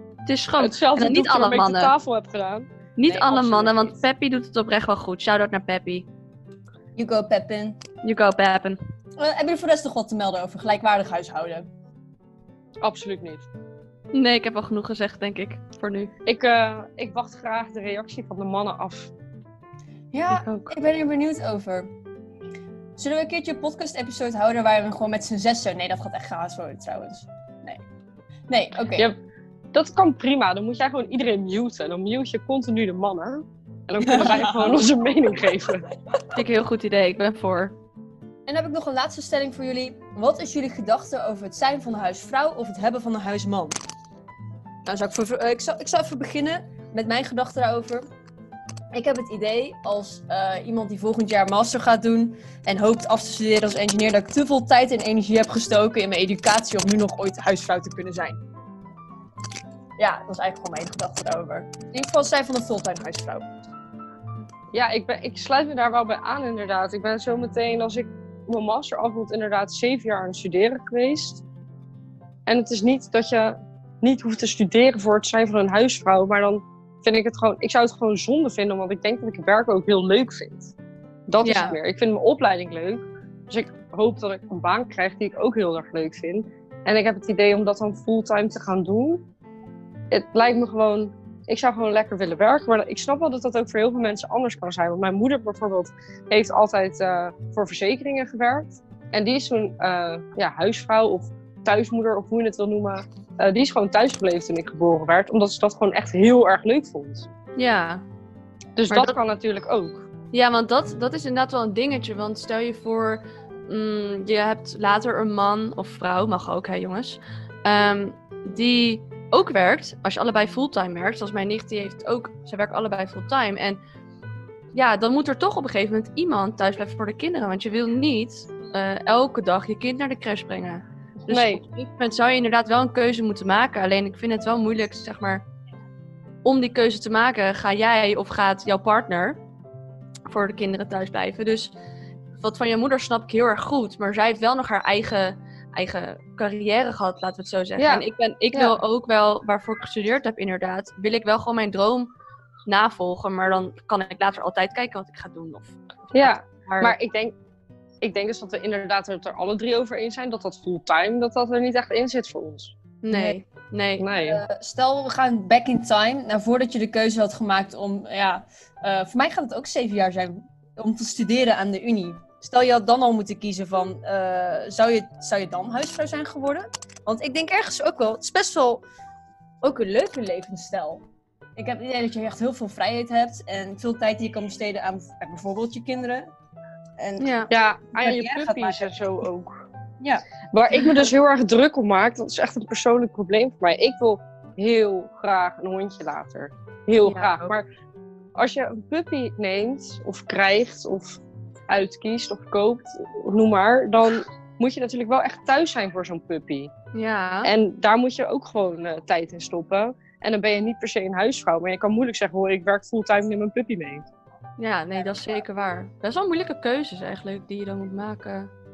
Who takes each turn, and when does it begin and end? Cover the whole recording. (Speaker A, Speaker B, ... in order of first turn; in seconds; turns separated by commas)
Speaker A: 0.2-1.9, Speaker B: 0.6-2.7, Speaker A: 3.0-6.1, Speaker C: 3.1-3.7, Speaker B: 3.5-3.8, Speaker C: 7.0-7.8, Speaker A: 8.0-8.8, Speaker C: 9.2-11.7, Speaker B: 12.8-13.4, Speaker A: 14.1-16.1, Speaker B: 16.2-19.1, Speaker C: 20.1-21.9, Speaker A: 20.3-20.7, Speaker C: 23.0-27.8, Speaker C: 28.5-29.1, Speaker B: 29.7-35.9, Speaker C: 34.0-34.8, Speaker A: 36.3-37.7, Speaker C: 38.5-43.8, Speaker C: 44.8-48.0, Speaker C: 48.9-58.4, Speaker C: 60.0-63.5, Speaker B: 64.7-71.4, Speaker B: 72.5-80.7, Speaker B: 81.3-89.2, Speaker A: 81.4-81.8, Speaker B: 90.1-107.3, Speaker A: 107.5-108.0, Speaker B: 108.8-110.0, Speaker A: 108.9-109.2, Speaker A: 110.3-123.8, Speaker A: 124.7-135.4, Speaker B: 131.2-131.6, Speaker A: 136.4-139.4, Speaker A: 140.3-141.7, Speaker A: 142.4-152.1, Speaker B: 147.8-148.8, Speaker A: 152.7-156.9, Speaker B: 156.1-157.3, Speaker B: 158.0-162.7, Speaker A: 163.0-164.1, Speaker C: 163.1-163.4, Speaker B: 164.0-164.4, Speaker C: 164.2-178.8, Speaker C: 179.6-181.0, Speaker C: 181.6-186.3, Speaker C: 187.0-188.9, Speaker A: 187.2-187.5, Speaker B: 187.5-189.7, Speaker B: 190.5-197.7, Speaker C: 190.7-191.0, Speaker A: 197.0-197.5, Speaker B: 198.3-206.7, Speaker A: 206.9-207.5, Speaker B: 207.4-214.1, Speaker A: 214.6-218.5